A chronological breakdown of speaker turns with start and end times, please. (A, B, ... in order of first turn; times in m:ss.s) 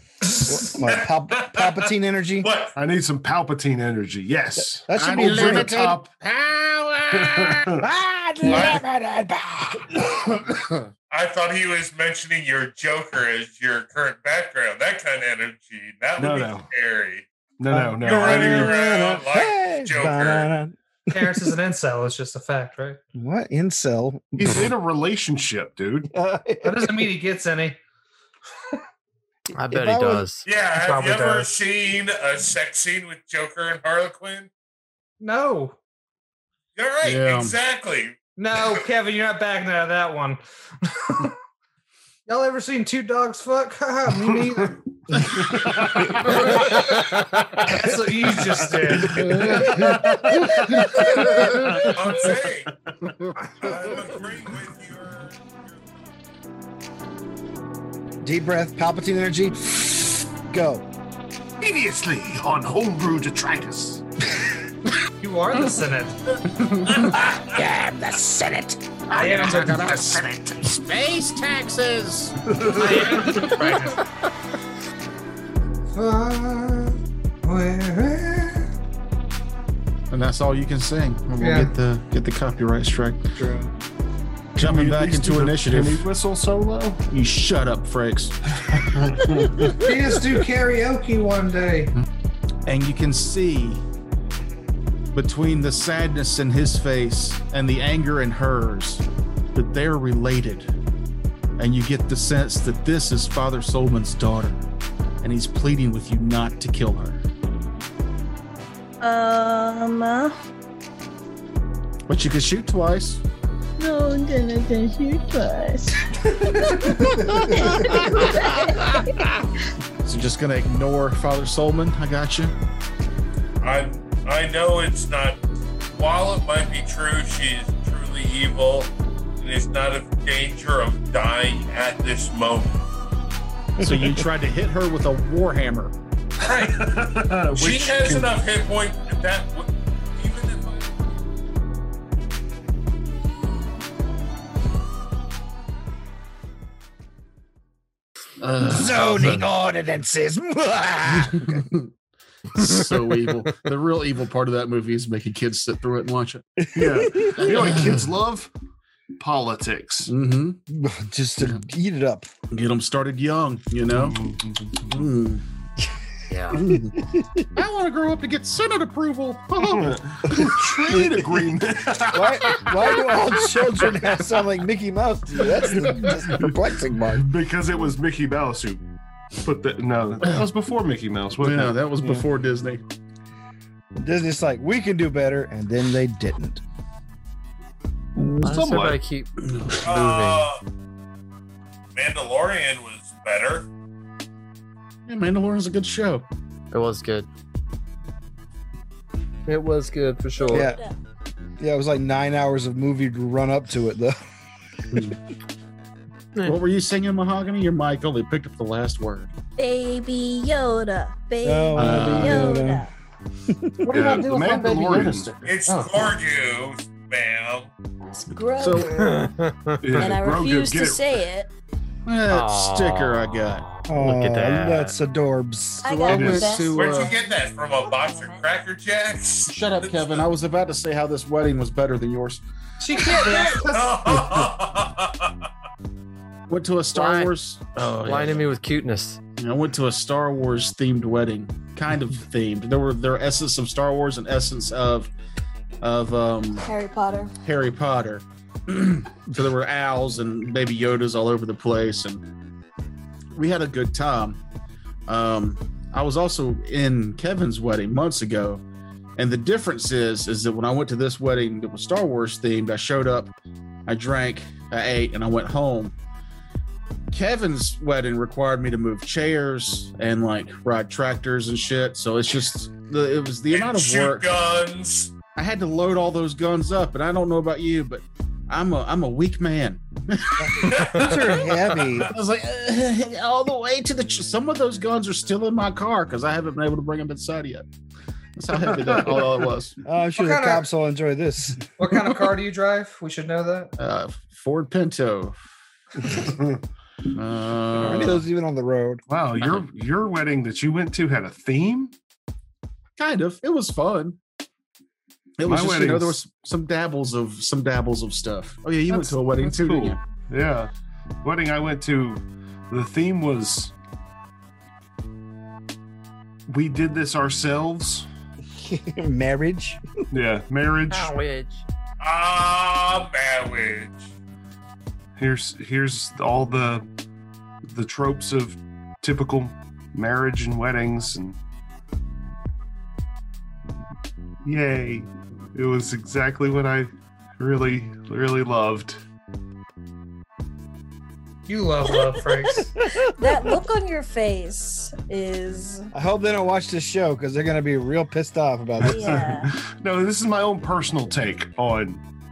0:00.3-0:02.7 A
0:00.5-0:02.5 B
0:02.8-0:06.1 C
0:04.6-0:05.8 B
0:05.0-0:07.7 D
0:07.1-0:07.9 C
0:07.8-0:10.1 B
0:08.5-0:08.9 A
0:11.1-0:17.3 A
0:16.2-0:16.7 C
0:17.6-0:18.8 C
0:17.7-0:21.6 B
0:18.0-0:20.5 A
0:18.3-0:18.7 E
0:21.1-0:23.0 E
0:23.2-0:24.7 B
0:24.4-0:26.1 C
0:26.1-0:27.1 B
0:26.6-0:27.8 E
0:29.6-0:30.4 F
0:29.7-0:30.3 B
0:30.4-0:34.5 A
0:30.8-0:31.5 E
0:35.2-0:35.8 E
0:36.8-0:38.2 A
0:37.0-0:37.6 D
0:38.4-0:41.4 E
0:42.3-0:44.8 E
0:44.2-0:47.8 C
0:46.7-0:47.0 E
0:47.6-0:50.0 E
0:48.4-0:52.3 C
0:50.7-0:51.4 E
0:51.5-0:52.7 A
0:53.5-0:55.4 A
0:58.2-1:00.9 B
1:01.6-1:04.0 C
1:05.2-1:06.2 E
1:06.5-1:07.3 D
1:07.3-1:09.0 B
1:09.1-1:12.5 D
1:09.1-1:09.9 E
1:10.1-1:10.6 C
1:12.5-1:13.6 C
1:12.8-1:14.0 E
1:15.9-1:18.7 E
1:20.1-1:23.3 D
1:21.4-1:21.8 E
1:23.4-1:23.7 E
1:24.6-1:27.0 C
1:24.6-1:26.1 D
1:27.1-1:29.4 D
1:28.7-1:29.3 C
1:29.7-1:31.9 E
1:32.7-1:33.8 D
1:35.1-1:40.7 D
1:41.6-1:44.7 D
1:45.2-1:47.2 D
1:49.0-1:50.4 G
1:52.1-1:53.2 D
1:53.8-1:59.3 G
2:00.0-2:02.5 D
2:03.6-2:05.4 A
2:05.9-2:12.8 A
2:13.8-2:14.3 B
2:13.8-2:15.9 D
2:16.4-2:18.4 C
2:16.4-2:16.8 A
2:17.5-2:20.9 A
2:28.4-2:29.4 D
2:28.6-2:31.6 B
2:31.2-2:31.9 D
2:32.5-2:36.4 D
2:36.6-2:37.5 B
2:36.8-2:38.5 C
2:37.4-2:38.0 D
2:39.2-2:40.1 C
2:40.1-2:40.6 D
2:40.7-2:42.3 B
2:42.5-2:44.2 D
2:43.9-2:45.1 C
2:44.9-2:45.4 D
2:46.3-2:46.6 F
2:46.5-2:47.0 D
2:46.6-2:47.5 B
2:47.6-2:50.7 D
2:49.6-2:54.2 C
2:50.9-2:51.3 B
2:52.1-2:57.3 B
2:55.5-2:58.9 C
2:59.4-3:01.8 C
3:01.4-3:02.8 D
3:02.0-3:02.3 B
3:04.0-3:06.6 B
3:08.4-3:09.0 C
3:08.4-3:10.5 F
3:09.8-3:10.6 A
3:12.0-3:13.7 A
3:15.1-3:16.3 D
3:16.7-3:17.3 F
3:19.5-3:20.7 F
3:20.4-3:21.0 G
3:20.5-3:20.8 B
3:21.6-3:24.2 B
3:24.9-3:25.2 D
3:26.4-3:29.3 D
3:29.6-3:32.9 G
3:31.4-3:32.9 B
3:31.8-3:32.5 C
3:33.5-3:34.1 B
3:33.8-3:36.0 D
3:33.9-3:35.4 C
3:34.5-3:35.0 E
3:35.4-3:37.7 A
3:38.1-3:39.3 G
3:38.6-3:39.0 D
3:39.0-3:40.0 F
3:39.8-3:41.2 C
3:40.0-3:41.5 G
3:42.1-3:43.6 D
3:42.3-3:45.0 F
3:43.9-3:46.0 B
3:45.8-3:48.5 G
3:45.8-3:47.2 D
3:46.1-3:46.6 C
3:46.7-3:50.2 A
3:49.5-3:52.4 D
3:52.8-3:54.0 E
3:53.0-3:55.3 A
3:56.5-3:58.5 D
3:57.0-3:57.3 F
3:58.0-3:59.2 F
3:59.4-4:05.1 D
4:05.8-4:06.7 D
4:06.6-4:07.3 G
4:07.4-4:12.2 D
4:13.4-4:14.4 D
4:15.1-4:18.6 D
4:19.2-4:23.4 D
4:23.9-4:25.9 D
4:27.1-4:34.3 D
4:33.5-4:35.1 A
4:35.4-4:41.1 D
4:40.4-4:42.1 B
4:40.6-4:41.9 A
4:42.0-4:47.6 D
4:48.4-4:49.8 D
4:48.6-4:49.2 C
4:49.9-4:51.7 B
4:50.2-4:50.6 E
4:51.8-4:53.7 E
4:53.8-4:55.4 D
4:56.0-4:56.6 C
4:57.1-4:58.2 D
4:57.8-4:59.0 B
4:59.1-5:01.9 C
4:59.4-4:59.6 D
5:03.0-5:04.2 D
5:05.4-5:10.0 D
5:05.4-5:06.2 C
5:08.9-5:10.7 C
5:11.2-5:13.7 C
5:16.5-5:18.1 C
5:18.6-5:19.8 B
5:20.1-5:21.1 C
5:20.9-5:21.6 F
5:22.0-5:24.1 A
5:25.2-5:26.9 C
5:27.7-5:31.4 C
5:34.4-5:39.0 C
5:41.5-5:42.7 E
5:41.8-5:45.9 G
5:42.9-5:43.5 B
5:45.9-5:49.2 B
5:48.8-5:52.0 C
5:48.9-5:49.5 G